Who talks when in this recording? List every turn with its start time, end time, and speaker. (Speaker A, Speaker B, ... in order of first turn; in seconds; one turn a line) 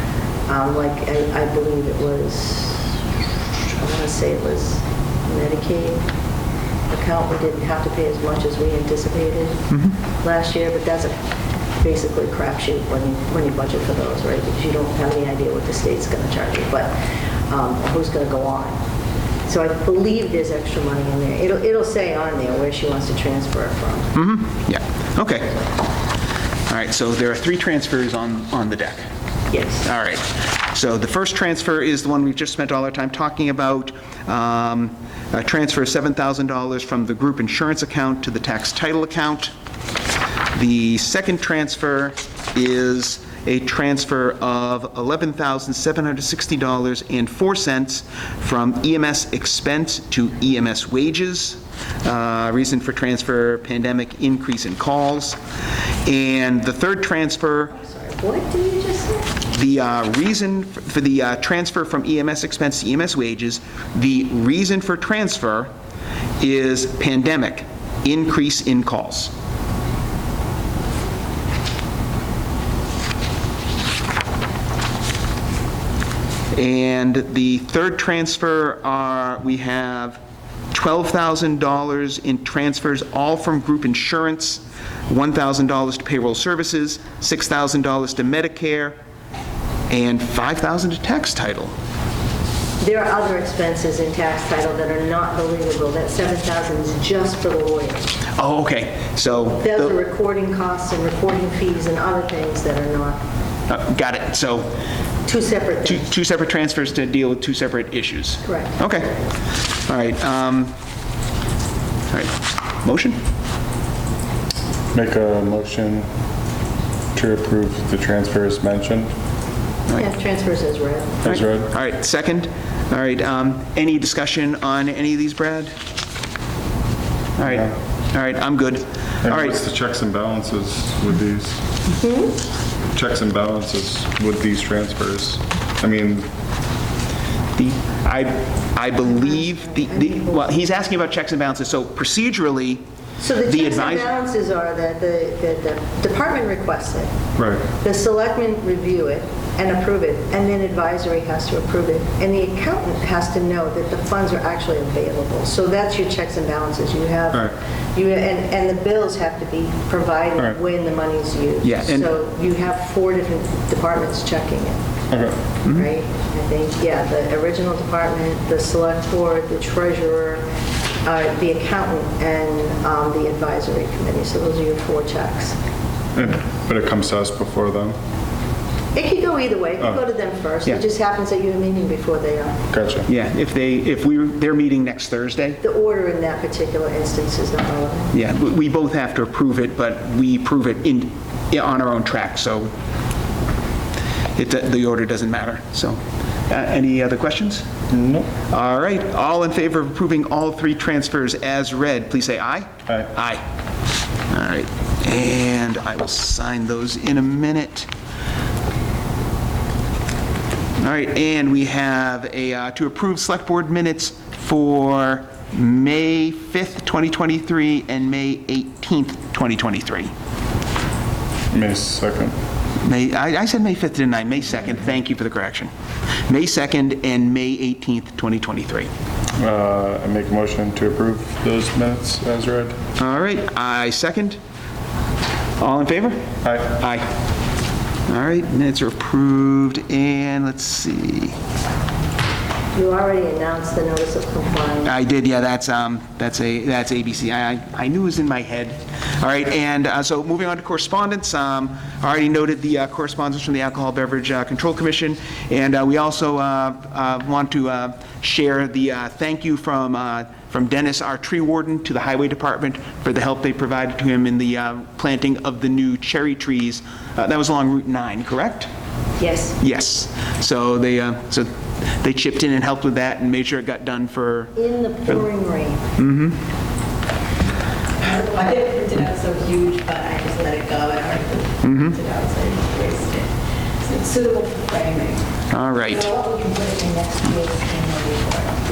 Speaker A: 0.5-2.9
Speaker A: 3.7-6.0
Speaker A: 6.9-9.6
Speaker A: 10.2-11.1
Speaker A: 11.8-16.9
Speaker A: 17.5-18.8
Speaker A: 19.5-24.1
Speaker B: 24.1-25.6
Speaker B: 26.7-29.1
Speaker A: 29.5-29.9
Speaker B: 29.8-39.5
Speaker B: 40.5-55.4
Speaker B: 56.1-57.7
Speaker A: 57.7-59.3
Speaker B: 59.5-65.7
Speaker B: 66.4-69.3
Speaker B: 76.5-80.2
Speaker B: 80.7-89.0
Speaker B: 89.9-91.7
Speaker A: 92.8-98.2
Speaker B: 98.4-100.0
Speaker A: 99.6-103.2
Speaker B: 103.7-104.7
Speaker A: 105.3-106.1
Speaker B: 105.8-109.2
Speaker A: 108.5-108.8
Speaker B: 109.7-110.7
Speaker B: 112.1-113.2
Speaker C: 114.9-116.1
Speaker C: 117.1-119.1
Speaker A: 119.9-121.2
Speaker C: 121.2-121.7
Speaker B: 121.2-125.7
Speaker B: 127.4-129.6
Speaker C: 129.2-131.6
Speaker A: 132.0-132.4
Speaker C: 132.9-136.3
Speaker B: 137.6-142.8
Speaker A: 139.1-140.5
Speaker A: 143.2-147.1
Speaker B: 143.4-144.1
Speaker C: 147.4-147.7
Speaker A: 147.7-164.8
Speaker B: 161.6-162.1
Speaker C: 165.1-165.4
Speaker A: 165.7-170.4
Speaker A: 171.1-175.6
Speaker C: 176.2-178.0
Speaker A: 178.9-182.7
Speaker C: 182.7-183.1
Speaker B: 183.1-185.6
Speaker A: 185.6-188.1
Speaker B: 188.1-192.7
Speaker B: 194.4-197.7
Speaker C: 197.9-198.3
Speaker B: 198.5-203.4
Speaker B: 204.3-207.9
Speaker B: 210.8-220.1
Speaker C: 221.5-222.3
Speaker B: 222.8-225.7
Speaker B: 226.3-228.9
Speaker C: 229.4-232.8
Speaker B: 233.0-234.4
Speaker B: 235.6-237.1
Speaker C: 236.4-236.7
Speaker B: 238.1-241.4
Speaker A: 242.7-244.9
Speaker B: 244.8-268.7
Speaker A: 269.2-269.6
Speaker B: 269.6-271.5
Speaker B: 272.0-275.3
Speaker A: 274.6-275.8
Speaker B: 276.0-276.4
Speaker D: 278.0-283.3
Speaker B: 281.6-282.0
Speaker D: 283.8-285.2
Speaker B: 285.5-286.1
Speaker D: 285.9-288.5